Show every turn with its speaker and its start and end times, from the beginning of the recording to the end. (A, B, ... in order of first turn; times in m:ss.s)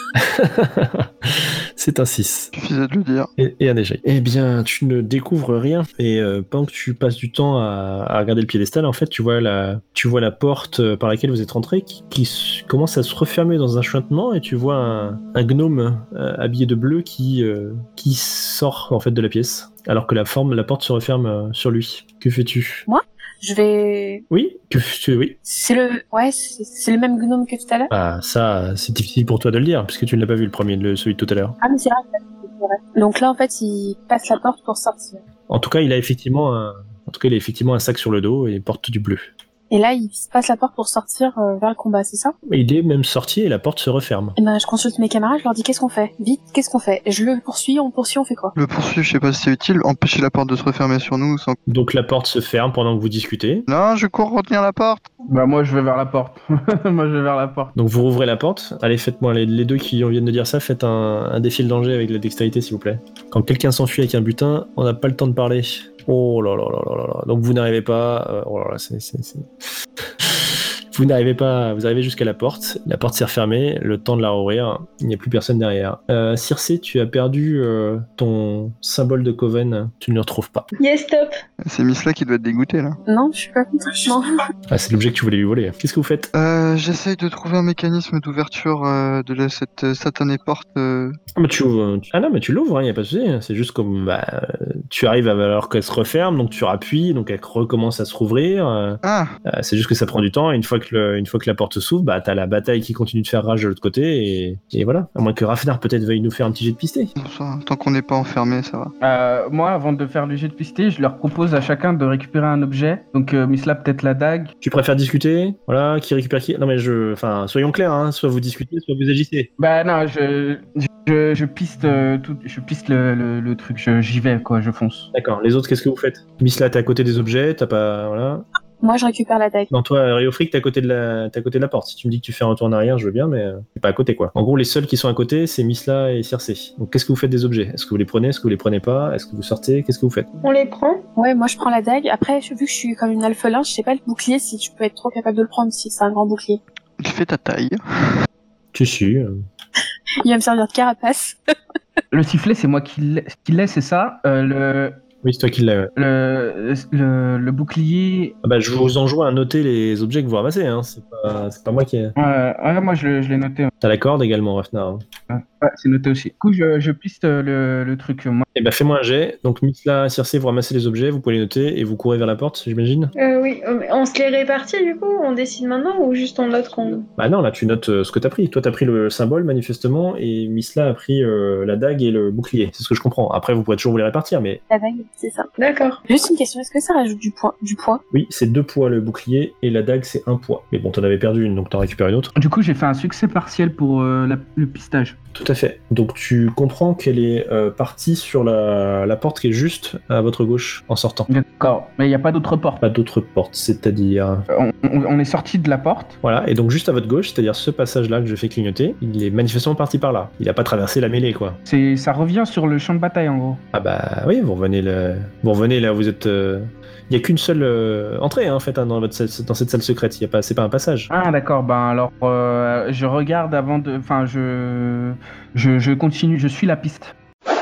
0:00.2-0:02.5 A
0:02.5-0:03.3 B
0:03.4-0:22.9 A
0:22.9-0:24.2 C
0:24.3-0:25.4 A
0:25.4-0:27.9 C
0:27.9-0:31.6 A
0:31.6-0:35.2 C
0:35.5-0:39.3 A
0:39.7-0:42.3 C
0:42.5-0:44.4 A
0:44.4-0:48.5 C
0:48.6-0:51.6 B
0:51.7-0:53.7 A
0:53.7-0:55.0 B
0:55.2-0:57.7 D
0:57.8-1:09.5 A
1:10.2-1:20.7 A
1:20.8-1:21.4 E
1:21.6-1:23.0 B
1:23.1-1:24.3 C
1:24.7-1:26.3 A
1:26.4-1:31.2 B
1:31.4-1:47.1 A
1:39.0-1:39.3 B
1:47.2-1:48.9 B
1:49.0-1:54.5 D
1:54.6-1:59.5 A
1:59.6-2:05.1 D
2:05.1-2:08.5 A
2:08.8-2:09.7 C
2:09.7-2:20.3 A
2:20.4-2:21.0 E
2:21.2-2:26.6 C
2:27.0-2:28.3 B
2:28.7-2:29.4 A
2:30.2-2:31.4 C
2:32.1-2:35.0 D
2:35.2-2:35.9 A
2:36.0-2:38.4 D
2:38.4-2:42.2 A
2:42.2-2:43.7 D
2:43.8-2:45.0 A
2:45.3-2:48.5 D
2:48.6-2:53.1 A
2:53.2-2:57.1 E
2:57.2-3:04.6 A
3:04.7-3:05.5 C
3:05.6-3:06.0 E
3:06.1-3:08.0 C
3:08.1-3:12.3 A
3:12.4-3:15.2 D
3:15.4-3:21.3 A
3:21.3-3:22.8 D
3:22.8-3:24.5 A
3:24.5-3:26.2 D
3:26.2-3:31.6 A
3:31.7-3:33.6 D
3:33.7-3:41.1 A
3:41.1-3:47.1 D